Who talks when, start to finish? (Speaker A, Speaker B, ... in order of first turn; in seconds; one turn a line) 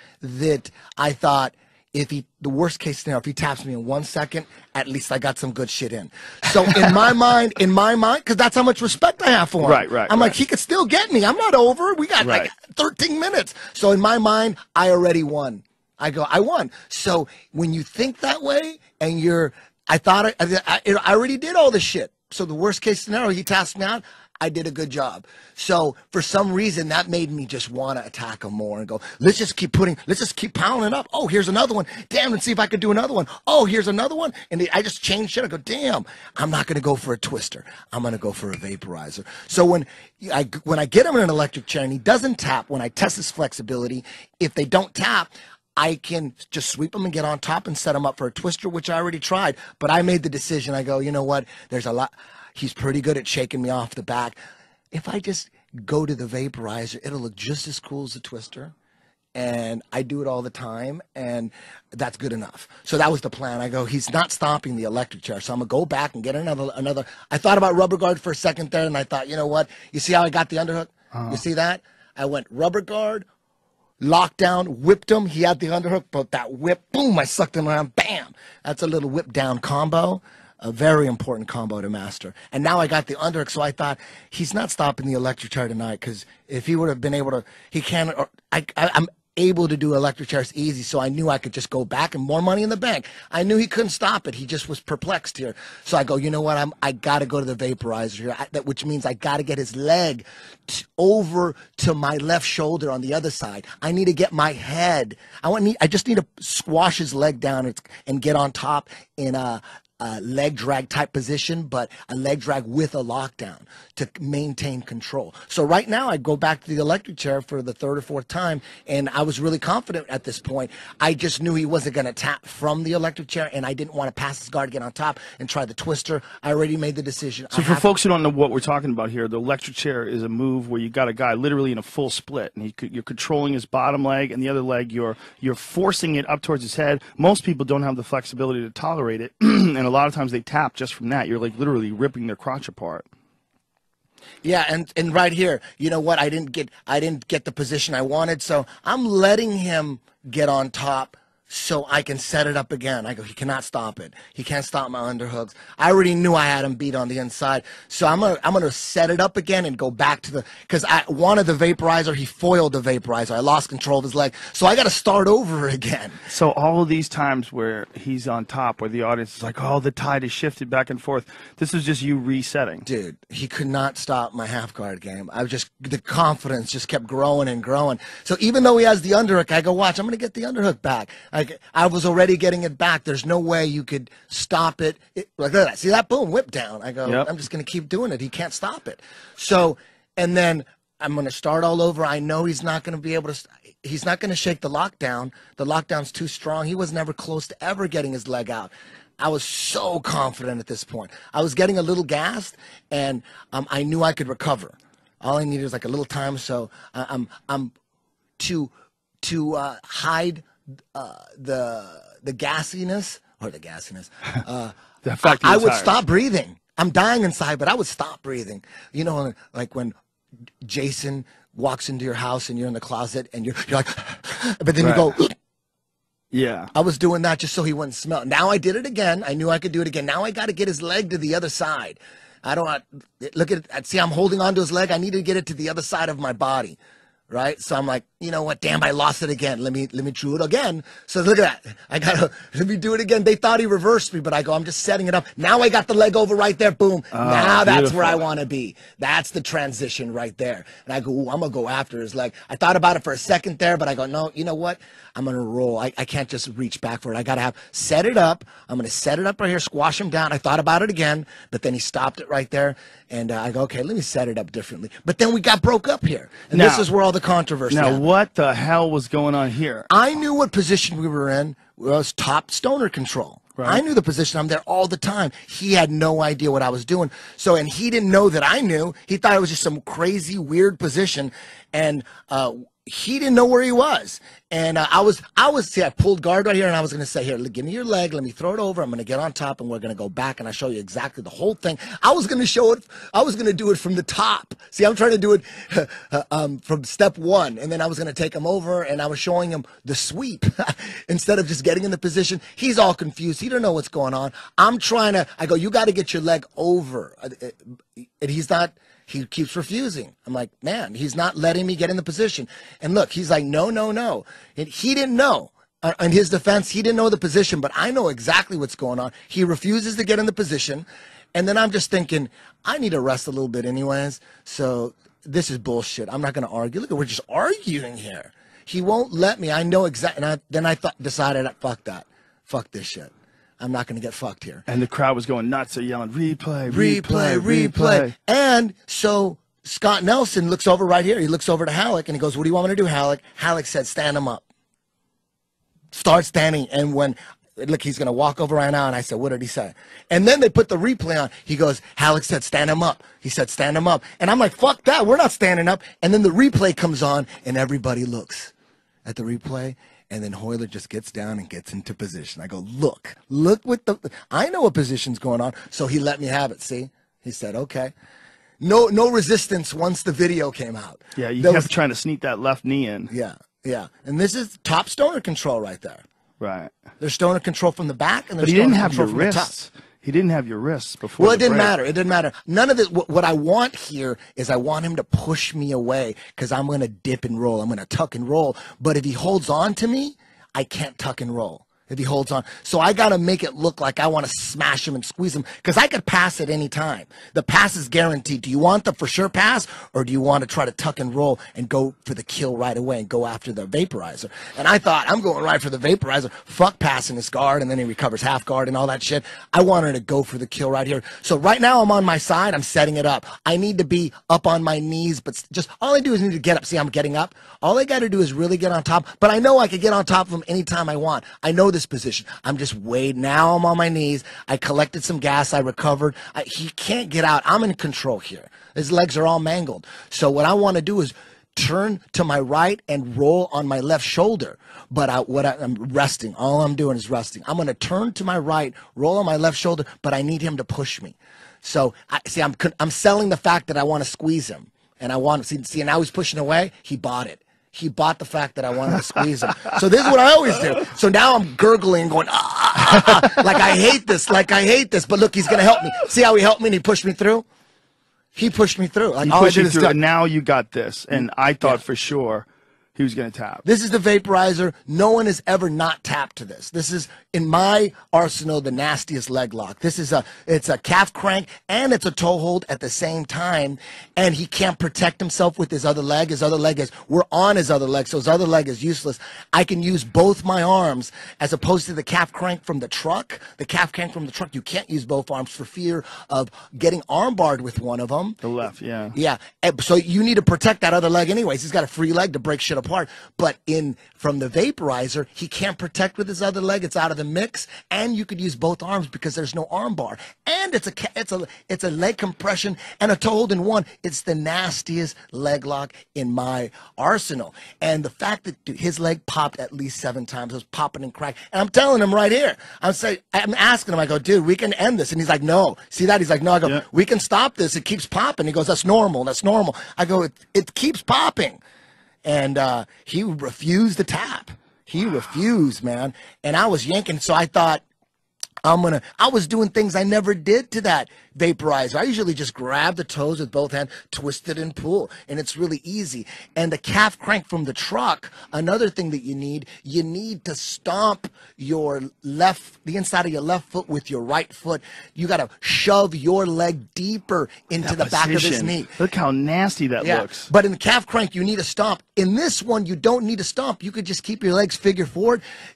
Speaker A: 0.2-54.4
Speaker B: 9.6-10.4
Speaker B: 12.2-12.5
Speaker A: 54.9-58.7
Speaker A: 59.4-73.2
Speaker B: 71.1-71.4
Speaker A: 74.0-127.9
Speaker B: 127.5-143.1
Speaker A: 144.4-166.2
Speaker B: 166.3-172.8
Speaker A: 172.8-207.7
Speaker B: 187.1-187.3
Speaker A: 208.4-208.7
Speaker A: 209.2-219.9
Speaker B: 215.0-215.9
Speaker A: 220.6-225.3
Speaker B: 224.8-225.1
Speaker B: 226.3-226.7
Speaker A: 226.7-236.8
Speaker A: 237.3-268.0
Speaker B: 247.1-248.2
Speaker B: 266.5-266.9
Speaker B: 267.7-269.9
Speaker A: 269.9-334.7
Speaker B: 273.6-273.8
Speaker B: 334.7-338.1
Speaker A: 336.7-344.4
Speaker A: 345.9-358.5
Speaker A: 359.1-367.9
Speaker A: 368.6-371.7
Speaker B: 371.2-373.1
Speaker A: 373.1-376.0
Speaker B: 376.4-376.8
Speaker A: 377.0-379.5
Speaker B: 378.4-381.7
Speaker A: 381.2-457.4
Speaker B: 453.0-453.4
Speaker A: 458.4-460.0
Speaker B: 459.2-463.6
Speaker A: 463.6-488.4
Speaker B: 488.4-489.2
Speaker A: 489.1-521.6
Speaker A: 522.2-527.8
Speaker A: 528.6-548.9
Speaker B: 547.8-550.5
Speaker A: 550.0-555.4